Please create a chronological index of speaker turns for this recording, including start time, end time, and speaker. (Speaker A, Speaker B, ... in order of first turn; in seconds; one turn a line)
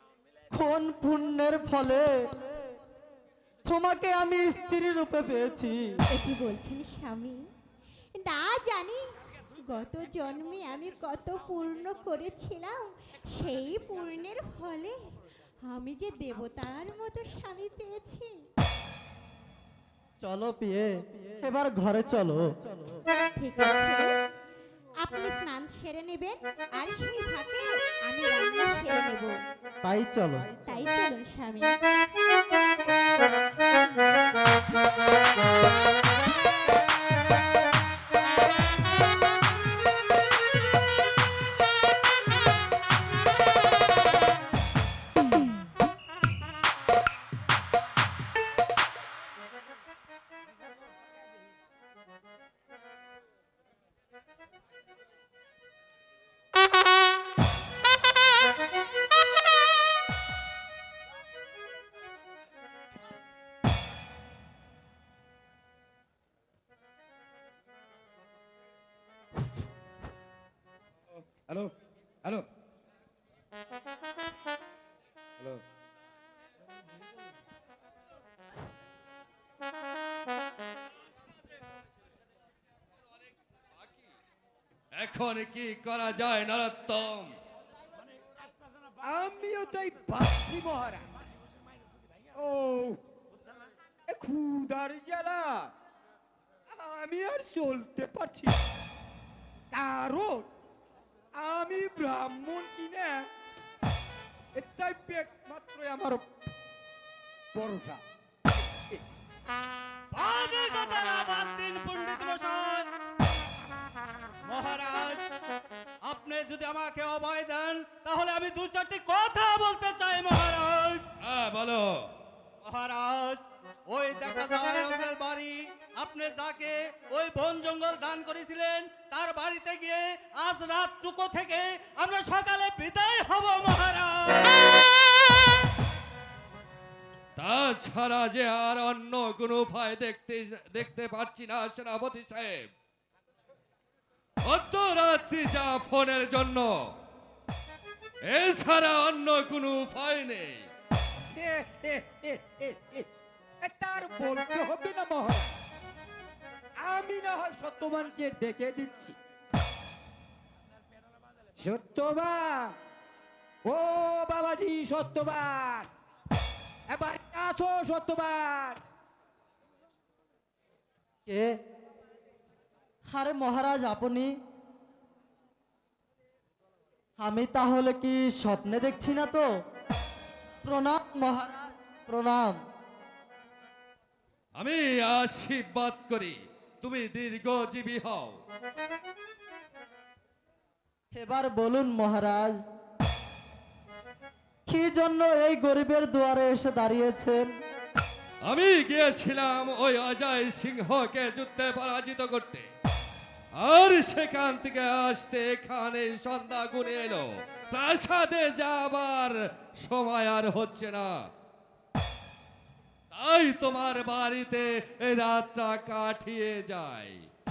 Speaker A: 0.5-2.6
Speaker A: 3.6-6.0
Speaker B: 6.1-7.4
Speaker B: 8.2-9.0
Speaker B: 9.6-15.0
Speaker B: 15.6-18.3
Speaker A: 20.2-23.0
Speaker B: 23.3-24.1
Speaker B: 25.0-29.4
Speaker A: 29.8-30.5
Speaker B: 30.6-31.8
Speaker C: 71.1-72.5
Speaker D: 84.9-87.3
Speaker C: 89.0-91.1
Speaker C: 92.3-93.0
Speaker C: 94.1-95.7
Speaker C: 96.7-98.6
Speaker C: 99.7-100.5
Speaker C: 101.3-103.3
Speaker C: 104.5-106.2
Speaker C: 107.5-108.0
Speaker E: 110.1-112.8
Speaker E: 114.5-115.2
Speaker E: 116.0-121.0
Speaker D: 121.2-122.1
Speaker E: 122.6-134.7
Speaker D: 137.4-142.7
Speaker D: 144.4-146.9
Speaker D: 148.2-150.7
Speaker C: 151.3-153.1
Speaker C: 153.6-155.5
Speaker C: 156.8-159.2
Speaker C: 161.6-162.7
Speaker C: 163.6-165.9
Speaker C: 166.9-168.8
Speaker A: 171.2-171.6
Speaker A: 173.1-174.4
Speaker A: 177.2-179.4
Speaker A: 180.6-182.6
Speaker D: 184.6-188.4
Speaker A: 191.2-192.6
Speaker A: 194.7-197.5
Speaker D: 198.4-202.7
Speaker D: 203.6-211.1
Speaker D: 213.1-217.2